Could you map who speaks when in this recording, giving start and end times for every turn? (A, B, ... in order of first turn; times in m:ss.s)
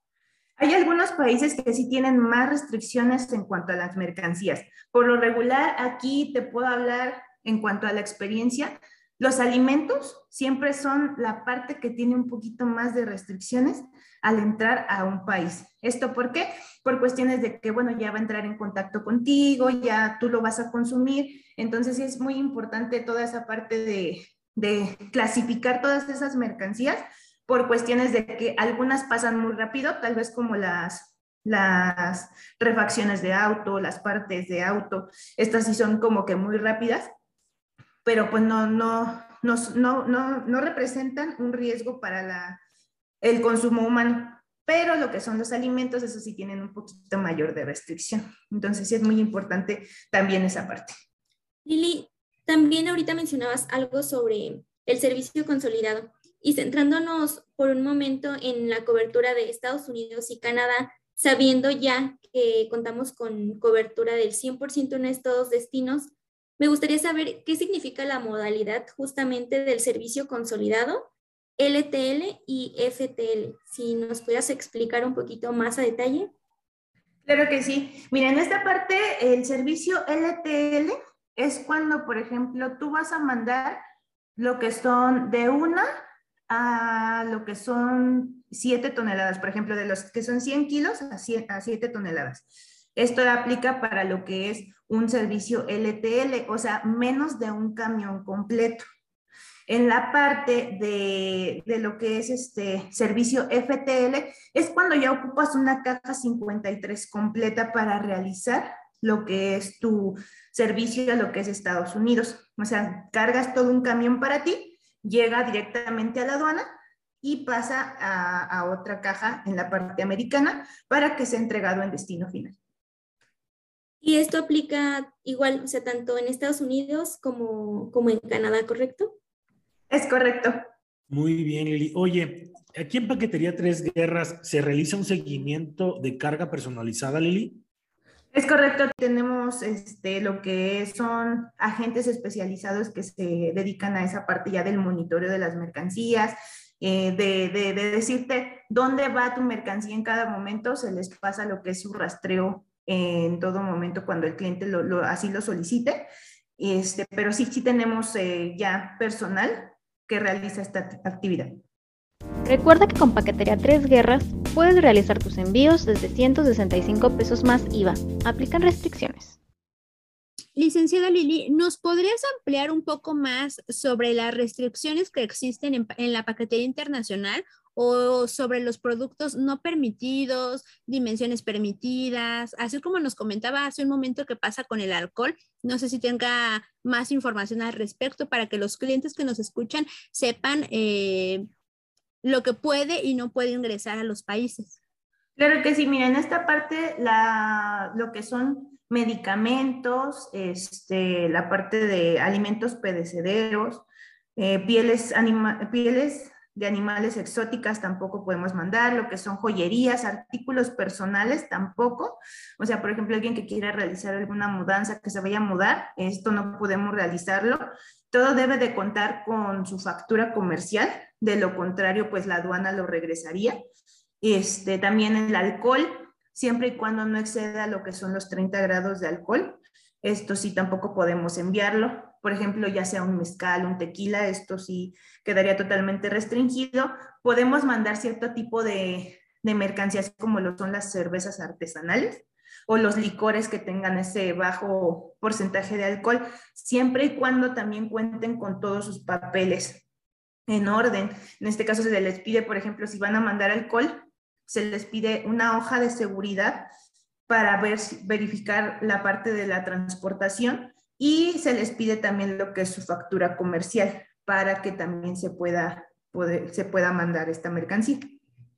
0:00.6-0:37.1 A
0:38.0-0:42.6 A
0:43.2-0:50.9 A
0:51.6-1:16.3 B
1:17.2-1:23.8 A
1:24.4-1:25.8 A
1:26.5-1:32.4 A
1:33.0-1:38.8 A
1:39.7-1:56.7 A
1:57.2-2:02.6 A
2:04.0-2:09.2 B
2:09.9-2:10.6 A
2:11.1-2:17.6 C
2:18.3-2:36.1 A
2:36.6-2:41.6 A
2:42.4-2:49.4 D
2:50.6-3:11.4 E
3:12.2-3:14.8 E
3:15.4-3:23.8 A
3:24.4-3:43.6 A
3:44.2-4:09.8 A
4:10.5-4:16.7 A
4:17.3-4:28.2 A